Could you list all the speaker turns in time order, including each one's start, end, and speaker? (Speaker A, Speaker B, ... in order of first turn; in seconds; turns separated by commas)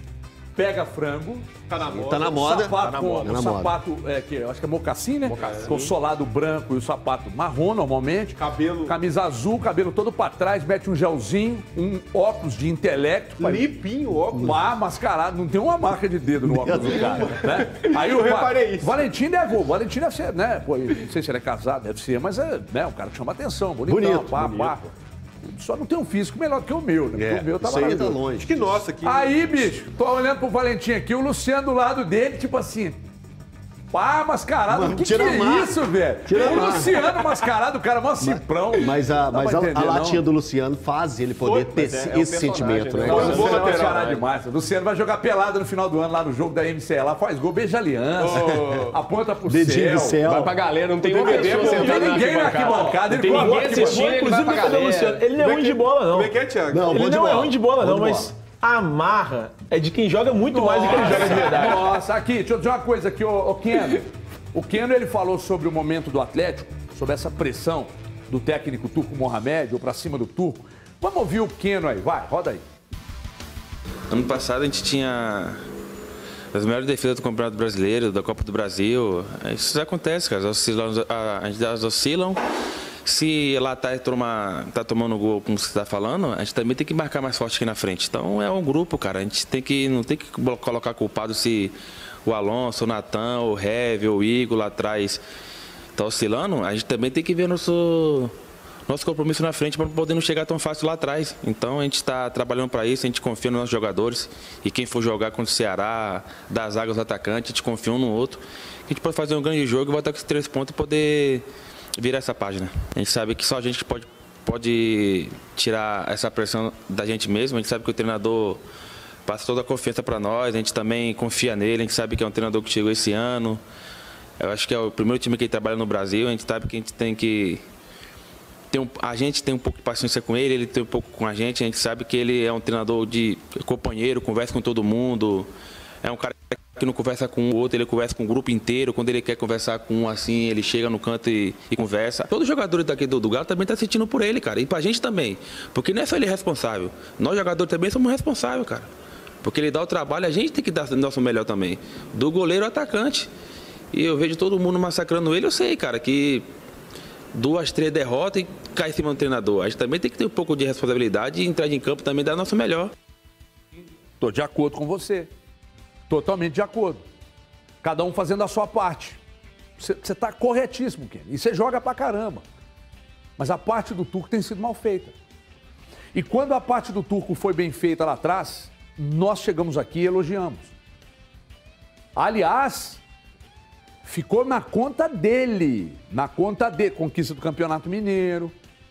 Speaker A: 0.6-1.5, Speaker B: 1.7-2.5, Speaker C: 1.9-3.8, Speaker A: 2.3-13.7, Speaker D: 5.3-5.9, Speaker B: 8.3-8.9, Speaker B: 13.4-14.6, Speaker A: 14.3-24.9, Speaker C: 16.4-17.3, Speaker B: 16.7-19.0, Speaker C: 23.9-24.8, Speaker A: 25.5-28.2, Speaker C: 27.1-28.8, Speaker B: 28.4-29.5, Speaker A: 29.0-33.0, Speaker A: 33.9-40.2, Speaker C: 34.7-37.0, Speaker B: 36.4-36.8, Speaker C: 38.2-43.7, Speaker D: 41.4-44.1, Speaker B: 43.0-44.2, Speaker A: 43.0-50.2, Speaker B: 48.2-48.9, Speaker C: 49.5-50.6, Speaker D: 50.2-55.2, Speaker A: 51.0-54.0, Speaker E: 51.1-61.9, Speaker B: 55.4-57.0, Speaker C: 56.7-58.3, Speaker A: 60.5-72.6, Speaker B: 60.9-61.8, Speaker F: 74.1-75.6, Speaker F: 76.5-82.4, Speaker F: 83.0-95.2, Speaker F: 95.9-98.3, Speaker F: 98.9-118.6, Speaker F: 119.2-123.6, Speaker F: 124.4-127.6, Speaker F: 128.7-135.5, Speaker F: 136.0-148.9, Speaker F: 149.4-153.3, Speaker F: 153.9-156.5, Speaker F: 157.3-162.9, Speaker A: 164.2-165.3, Speaker A: 166.1-167.0, Speaker A: 167.8-169.2, Speaker A: 169.8-172.4, Speaker A: 173.4-175.1, Speaker A: 176.1-180.7, Speaker A: 182.2-183.0, Speaker A: 184.0-188.5